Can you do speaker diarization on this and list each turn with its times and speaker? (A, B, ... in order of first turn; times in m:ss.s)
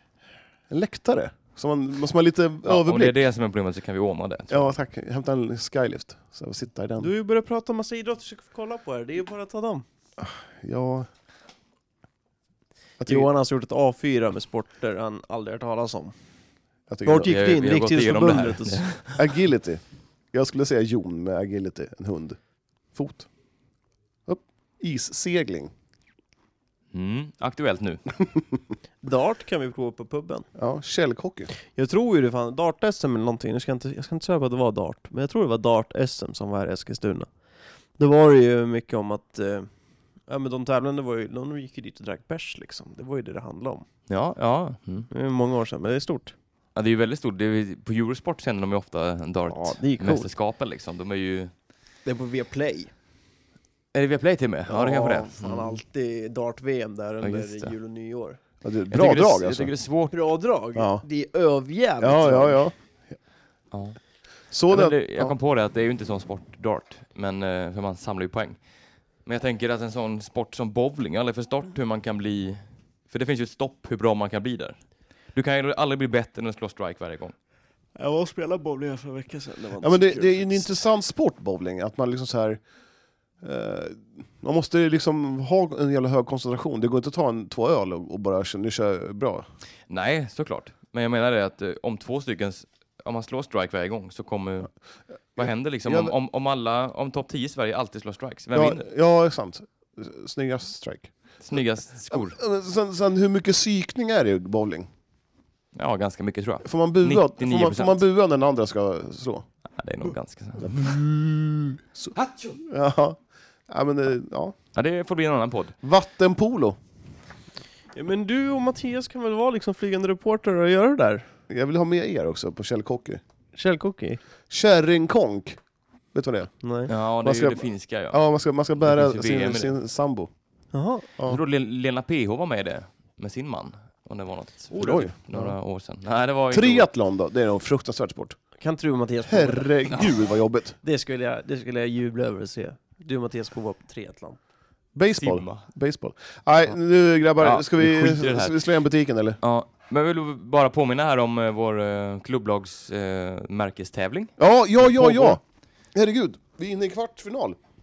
0:00.7-0:03.2 A
0:02.6-0:04.7 B
0:04.5-0:07.1 A
0:07.0-0:09.8 C
0:10.2-0:11.1 A
0:13.0-0:13.3 A
0:13.0-0:16.1 C
0:16.9-0:17.3 A
0:17.0-0:19.0 C
0:17.3-0:19.1 B
0:19.2-0:22.4 A
0:22.9-0:23.3 A
0:24.3-0:25.7 A
0:26.9-0:28.0 B
0:29.0-0:30.5 C
0:30.5-0:31.5 A
0:31.7-0:37.3 C
0:38.0-0:39.7 C
0:40.2-0:43.8 C
0:44.1-0:45.1 B
0:45.1-0:46.3 C
0:46.7-0:51.5 B
0:49.5-0:50.3 C
0:52.0-0:52.9 C
0:53.9-0:55.8 B
0:54.7-0:58.4 C
0:57.2-0:57.7 B
0:58.6-0:59.7 A
0:58.9-1:00.1 B
1:00.1-1:02.7 C
1:00.8-1:01.0 A
1:02.0-1:03.1 A
1:03.7-1:04.0 B
1:04.5-1:05.3 A
1:04.7-1:08.6 B
1:09.2-1:14.8 B
1:15.3-1:17.3 B
1:18.0-1:20.7 C
1:19.8-1:22.6 A
1:23.4-1:29.5 A
1:29.9-1:34.7 B
1:35.3-1:38.8 B
1:35.4-1:36.1 A
1:38.5-1:44.9 A
1:41.4-1:42.4 B
1:45.7-1:48.0 B
1:46.6-1:49.4 A
1:49.7-1:50.9 B
1:50.6-1:54.5 A
1:52.1-1:52.6 B
1:54.7-1:55.8 B
1:55.8-1:56.8 A
1:57.9-2:01.3 C
2:01.5-2:03.2 A
2:03.5-2:04.2 C
2:04.5-2:05.6 A
2:06.1-2:06.5 A
2:06.6-2:06.9 C
2:06.9-2:08.2 B
2:07.1-2:10.3 A
2:08.8-2:09.7 B
2:10.7-2:11.0 C
2:11.2-2:16.9 B
2:14.7-2:15.6 A
2:16.5-2:18.4 A
2:18.6-2:19.9 C
2:19.2-2:20.8 A
2:20.8-2:24.4 C
2:24.9-2:29.4 A
2:25.1-2:25.6 B
2:27.4-2:28.6 B
2:29.4-2:35.4 B
2:34.4-2:35.4 A
2:35.9-2:37.6 A